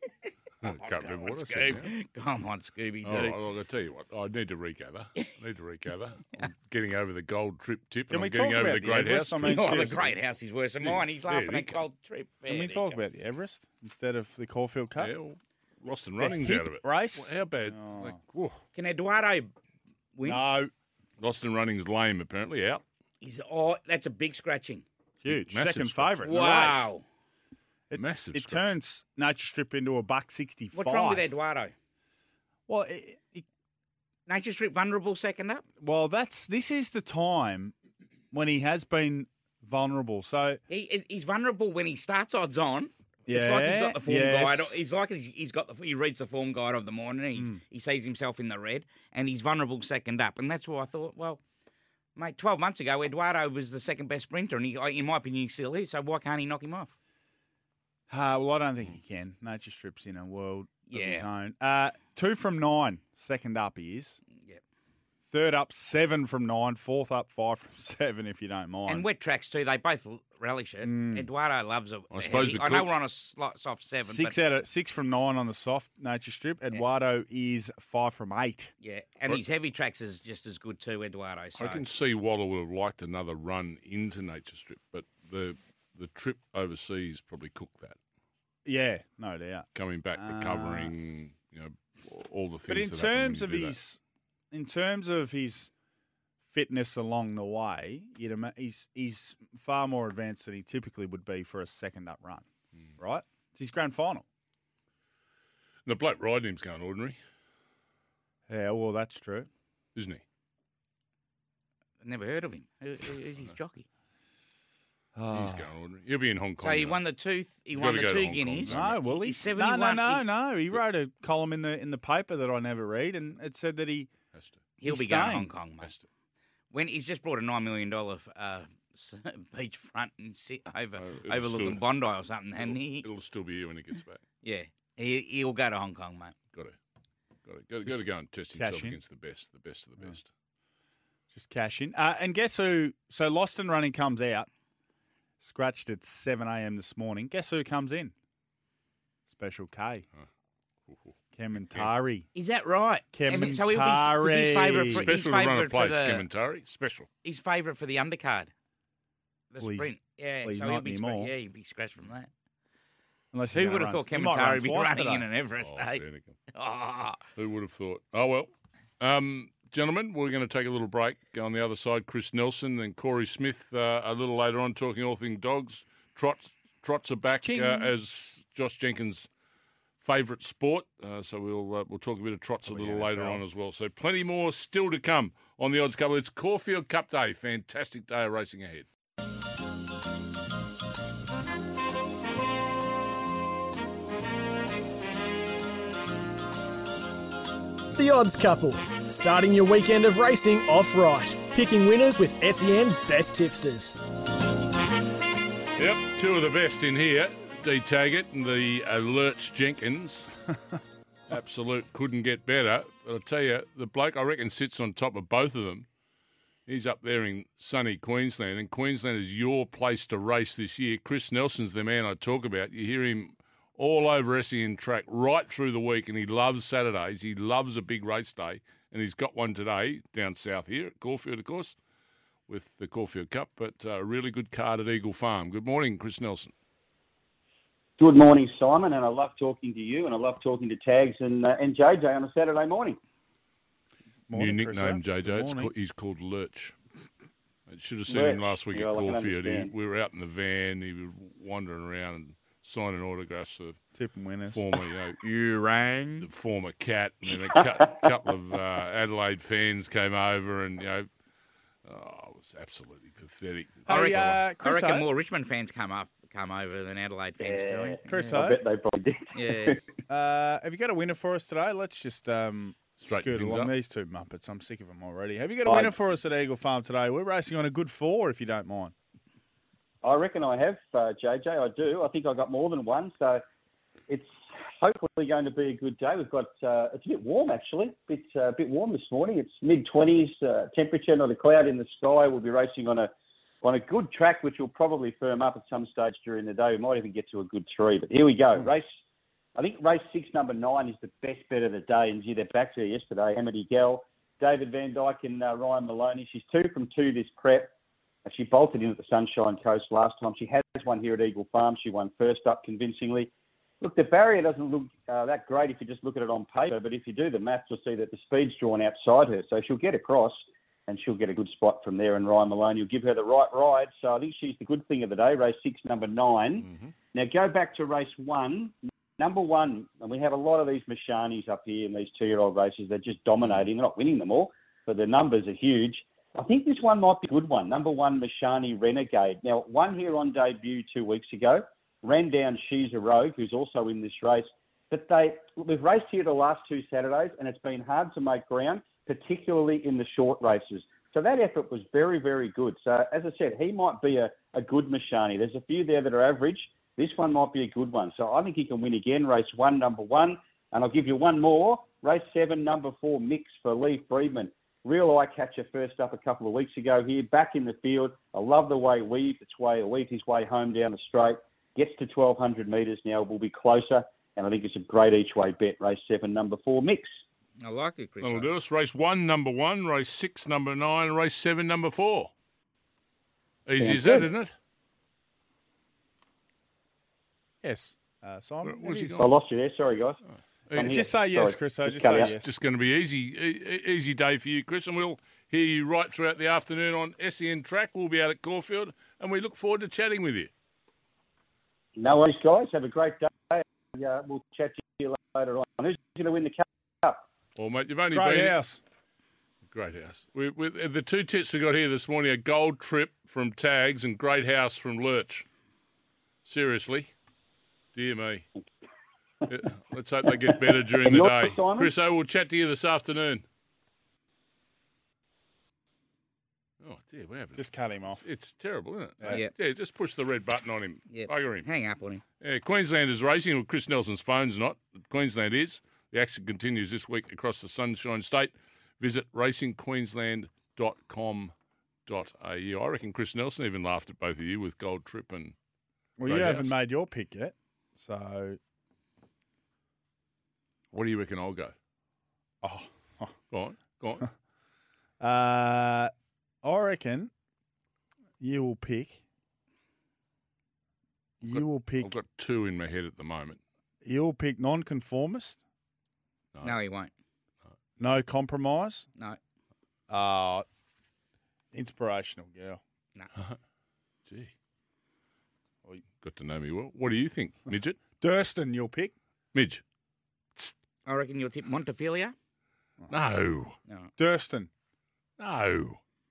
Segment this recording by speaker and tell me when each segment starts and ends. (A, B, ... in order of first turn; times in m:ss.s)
0:00.6-0:01.9 A
0:00.6-0:03.4 B
0:03.0-0:10.0 A
0:08.1-0:10.1 C
0:09.4-0:13.0 B
0:10.8-0:11.8 A
0:12.5-0:15.1 C
0:15.0-0:18.6 A
0:16.2-0:18.2 C
0:18.7-0:19.5 B
0:20.1-0:20.4 B
0:20.2-0:20.7 C
0:21.2-0:22.8 A
0:23.2-0:24.8 B
0:25.2-0:26.8 C
0:25.2-0:26.8 A
0:26.2-0:27.0 B
0:27.9-0:31.3 C
0:27.9-0:28.7 A
0:30.7-0:31.7 B
0:32.7-0:33.4 C
0:34.3-0:35.6 B
0:35.8-0:37.7 C
0:38.3-0:40.6 C
0:40.7-0:51.4 B
0:43.3-0:44.8 C
0:47.3-0:47.6 C
0:52.2-0:56.9 B
0:58.1-1:04.2 C
1:00.9-1:01.2 B
1:05.3-1:09.0 C
1:08.9-1:14.4 B
1:10.8-1:11.3 C
1:12.1-1:12.9 A
1:14.0-1:18.7 C
1:18.8-1:21.8 B
1:21.6-1:28.0 A
1:28.6-1:30.9 C
1:29.7-1:33.8 A
1:32.7-1:34.0 C
1:34.5-1:35.7 C
1:36.5-1:42.4 C
1:43.0-1:44.2 C
1:45.8-1:47.2 A
1:48.5-1:49.5 C
1:49.9-1:50.2 A
1:52.0-1:53.8 B
1:55.1-1:55.6 C
1:55.3-1:57.0 A
1:56.6-2:00.3 B
1:57.7-1:59.1 A
1:58.7-2:04.1 C
2:04.3-2:04.6 A
2:04.8-2:05.9 B
2:04.8-2:05.5 C
2:06.7-2:13.1 B
2:11.0-2:11.8 A
2:12.6-2:14.2 A
2:14.4-2:16.3 B
2:17.4-2:20.3 A
2:18.5-2:19.0 C
2:21.3-2:24.5 C
2:25.4-2:28.1 C
2:29.3-2:30.0 C
2:30.9-2:31.1 A
2:31.3-2:32.3 C
2:32.3-2:36.2 B
2:33.1-2:35.0 C
2:34.9-2:37.1 A
2:37.2-2:38.5 B
2:39.5-2:42.3 B
2:39.6-2:39.9 C
2:40.4-2:41.3 C
2:43.3-2:45.2 C
2:43.5-2:47.2 B
2:45.6-2:46.4 A
2:47.4-2:48.5 A
2:49.0-2:59.3 A
2:57.3-2:57.9 C
3:00.0-3:08.9 A
3:02.7-3:03.4 C
3:18.0-3:24.0 D
3:25.8-3:30.3 A
3:31.3-3:35.8 A
3:36.7-3:51.7 A
3:52.5-3:56.5 A
3:58.0-4:03.0 E
4:04.3-4:05.7 C
4:04.3-4:06.7 A
4:07.7-4:13.8 A
4:08.1-4:09.7 E
4:14.0-4:14.6 C
4:14.5-4:15.2 A
4:15.2-4:16.2 B
4:16.2-4:21.1 A
4:21.8-4:24.4 A
4:23.8-4:25.1 C
4:23.9-4:28.0 B
4:27.4-4:29.8 E
4:28.1-4:28.6 C
4:29.3-4:29.8 B
4:30.1-4:38.9 C
4:33.0-4:33.7 A
4:35.6-4:35.9 E
4:40.0-4:43.4 E
4:44.1-4:53.1 E
4:53.6-4:58.9 E
4:59.6-5:07.7 E
5:08.2-6:17.2 E
6:17.6-6:18.5 B
6:18.2-6:22.3 A
6:23.6-6:24.5 A
6:23.8-6:24.3 E
6:27.6-6:29.2 C
6:28.6-6:29.3 A
6:29.2-6:30.2 E
6:30.7-6:30.9 A
6:30.7-6:32.3 E
6:30.7-6:32.5 C
6:32.2-6:40.5 A
6:42.0-6:47.2 E
6:47.6-6:48.6 A
6:48.1-6:48.8 C
6:49.7-6:55.4 A
6:56.4-6:57.1 A
6:57.9-6:58.4 A
6:59.5-7:03.4 A
7:00.5-7:01.9 E
7:06.8-7:11.7 A
7:07.6-7:08.2 C
7:11.1-7:12.2 B
7:12.4-7:21.5 A
7:22.0-7:25.5 A
7:26.2-7:28.6 C
7:26.2-7:26.7 A
7:30.9-7:31.7 A
7:32.6-7:33.3 C
7:33.5-7:34.3 A
7:35.2-7:36.1 C
7:36.6-7:37.3 C
7:38.4-7:39.2 C
7:41.4-7:42.1 C
7:41.4-7:43.6 A
7:44.0-7:45.6 C
7:46.6-7:47.1 B
7:48.0-7:49.1 C
7:50.1-7:50.6 C
7:51.7-7:52.8 C
7:54.2-7:54.5 A
7:56.2-7:58.0 A
7:58.2-7:59.1 C
7:59.5-7:59.8 A
8:01.0-8:02.3 B
8:03.1-8:03.8 A
8:04.2-8:04.7 C
8:05.4-8:06.0 A